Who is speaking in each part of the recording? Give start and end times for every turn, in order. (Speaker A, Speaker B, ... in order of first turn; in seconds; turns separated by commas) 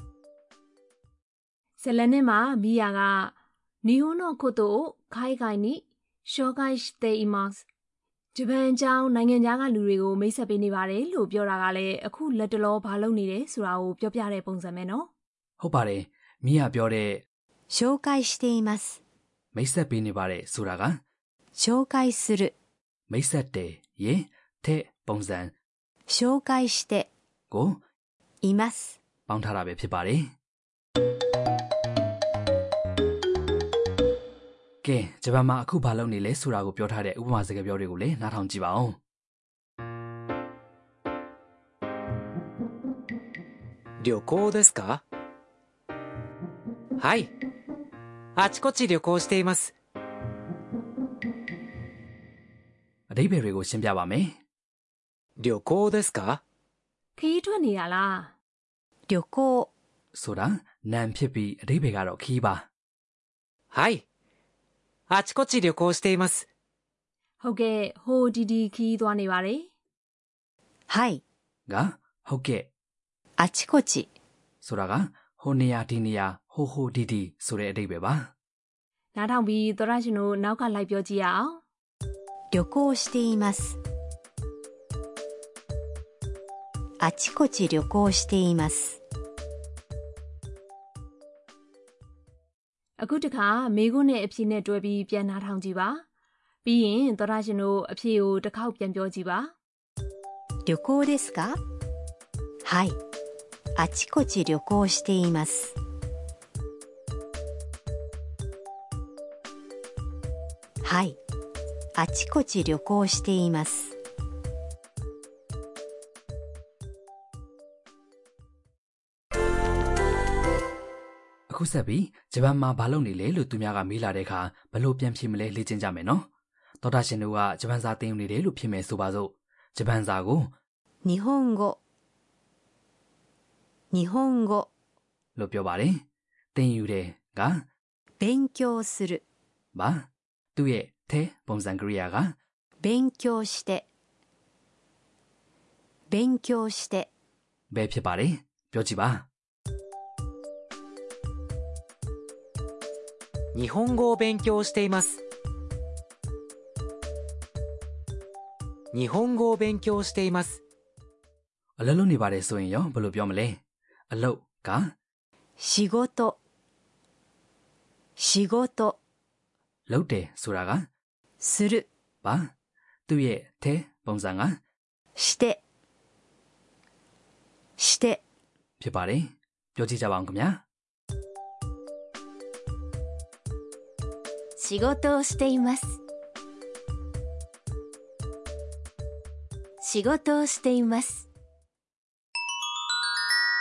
Speaker A: 1.8-7.6, Speaker A: 8.3-15.1, Speaker B: 15.6-17.2, Speaker C: 17.7-19.0, Speaker B: 19.5-21.0, Speaker C: 21.6-22.5, Speaker B: 23.1-25.5, Speaker C: 26.1-27.1, Speaker B: 27.5-27.8, Speaker C: 28.4-29.0, Speaker B: 29.3-30.3, Speaker B: 34.8-39.0, Speaker D: 44.0-45.0, Speaker D: 47.0-47.3, Speaker D: 48.4-49.7, Speaker B: 53.1-54.4, Speaker D: 55.4-56.4, Speaker A: 57.1-58.3, Speaker C: 59.1-59.7, Speaker B: 60.1-62.7, Speaker D: 63.7-64.0, Speaker D: 65.1-66.5, Speaker A: 67.4-69.7, Speaker C: 70.9-71.2, Speaker B: 71.7-72.7, Speaker C: 73.4-74.1, Speaker B: 74.6-78.3, Speaker A: 79.1-81.6, Speaker C: 82.5-83.8, Speaker C: 87.0-89.0, Speaker A: 93.0-96.0, Speaker A: 96.6-99.5, Speaker C: 100.7-101.6, Speaker C: 102.6-103.0, Speaker C: 103.8-105.7, Speaker C: 110.8-111.2, Speaker C: 112.0-113.9, Speaker B: 121.5-126.3, Speaker B: 126.8-130.5, Speaker C: 131.0-131.8, Speaker C: 133.9-134.7, Speaker B: 135.3-137.7, Speaker C: 138.2-139.2, Speaker B: 139.7-142.4, Speaker C: 142.8-143.9, Speaker C: 146.1-147.1, Speaker B: 147.7-149.3, Speaker D: 153.5-155.2, Speaker D: 158.9-160.6, Speaker B: 161.8-164.9, Speaker C: 165.6-166.4, Speaker C: 168.2-169.0, Speaker B: 169.9-170.9, Speaker C: 171.4-171.9, Speaker B: 172.2-172.5, Speaker B: 173.1-174.6, Speaker C: 175.2-175.6, Speaker C: 177.8-178.2, Speaker B: 178.8-180.6, Speaker E: 184.6-185.8, Speaker E: 190.1-191.2